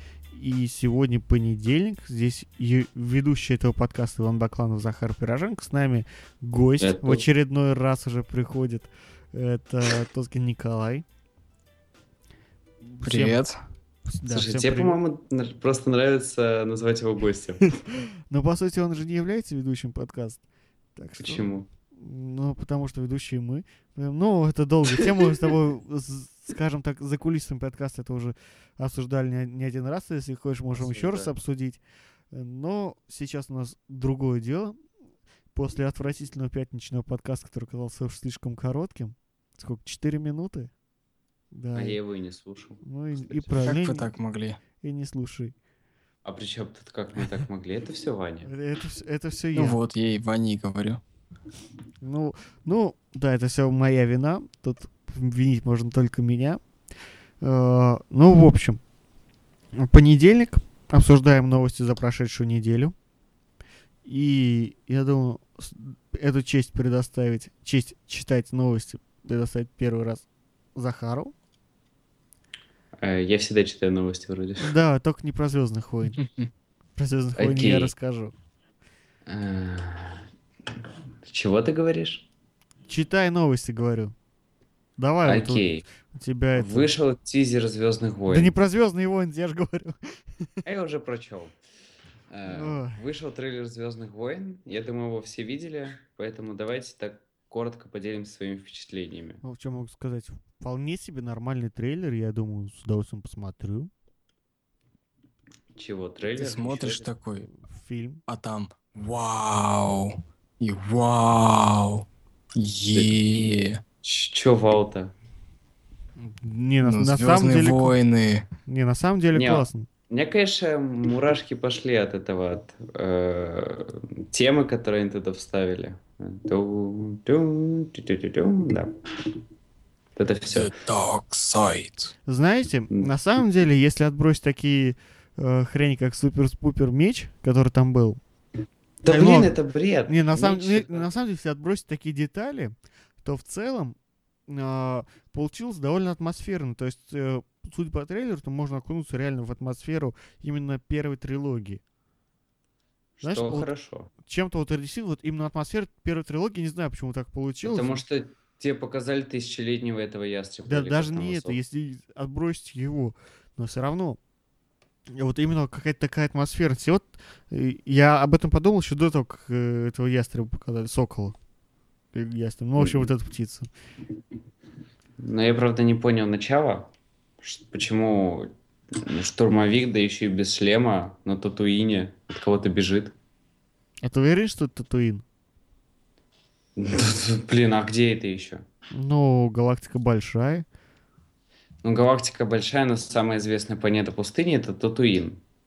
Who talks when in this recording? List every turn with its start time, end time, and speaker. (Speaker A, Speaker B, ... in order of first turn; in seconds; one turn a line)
Speaker A: 0.3-11.0
Speaker B: 6.8-7.2
Speaker A: 12.9-13.4
Speaker C: 13.0-13.6
Speaker A: 14.1-15.0
Speaker B: 14.2-17.8
Speaker A: 18.3-20.4
Speaker A: 20.9-31.8
Speaker B: 21.2-21.7
Speaker B: 30.7-31.3
Speaker A: 32.3-34.8
Speaker A: 35.5-40.7
Speaker A: 41.5-42.0
Speaker B: 41.7-43.7
Speaker A: 42.8-44.1
Speaker C: 43.6-44.6
Speaker A: 44.8-45.5
Speaker B: 46.2-48.5
Speaker A: 48.4-49.8
Speaker C: 49.5-51.0
Speaker A: 52.0-56.6
Speaker A: 57.4-58.8
Speaker A: 59.8-62.9
Speaker A: 64.0-70.2
Speaker A: 70.8-71.3
Speaker B: 73.0-74.7
Speaker A: 74.6-76.2
Speaker C: 76.2-76.5
Speaker A: 77.0-78.3
Speaker B: 77.4-77.9
Speaker B: 79.3-80.2
Speaker B: 81.2-82.3
Speaker A: 82.9-84.1
Speaker A: 85.0-86.9
Speaker B: 85.2-85.8
Speaker B: 86.5-88.5
Speaker A: 88.3-90.0
Speaker B: 90.6-91.5
Speaker B: 92.3-99.4
Speaker A: 92.5-93.0
Speaker A: 99.4-103.9
Speaker B: 105.7-107.1
Speaker C: 106.4-107.5
Speaker A: 107.7-108.2
Speaker C: 108.3-113.8
Speaker B: 114.0-115.1
Speaker A: 116.2-118.0
Speaker C: 116.8-118.5
Speaker A: 118.7-119.9
Speaker B: 119.3-129.0
Speaker B: 130.2-130.7
Speaker C: 130.5-132.1
Speaker A: 132.3-138.2
Speaker B: 139.0-141.1
Speaker A: 139.1-139.5
Speaker A: 140.1-143.9
Speaker A: 144.5-151.8
Speaker B: 153.2-154.1
Speaker A: 153.2-153.7
Speaker A: 154.2-158.0
Speaker B: 157.6-161.6
Speaker A: 160.7-164.2
Speaker A: 165.1-171.3
Speaker A: 172.1-173.7
Speaker B: 172.8-173.1
Speaker B: 175.2-176.9
Speaker B: 177.4-183.1
Speaker A: 184.0-185.2
Speaker B: 186.8-188.6
Speaker A: 188.9-190.6
Speaker B: 191.8-195.4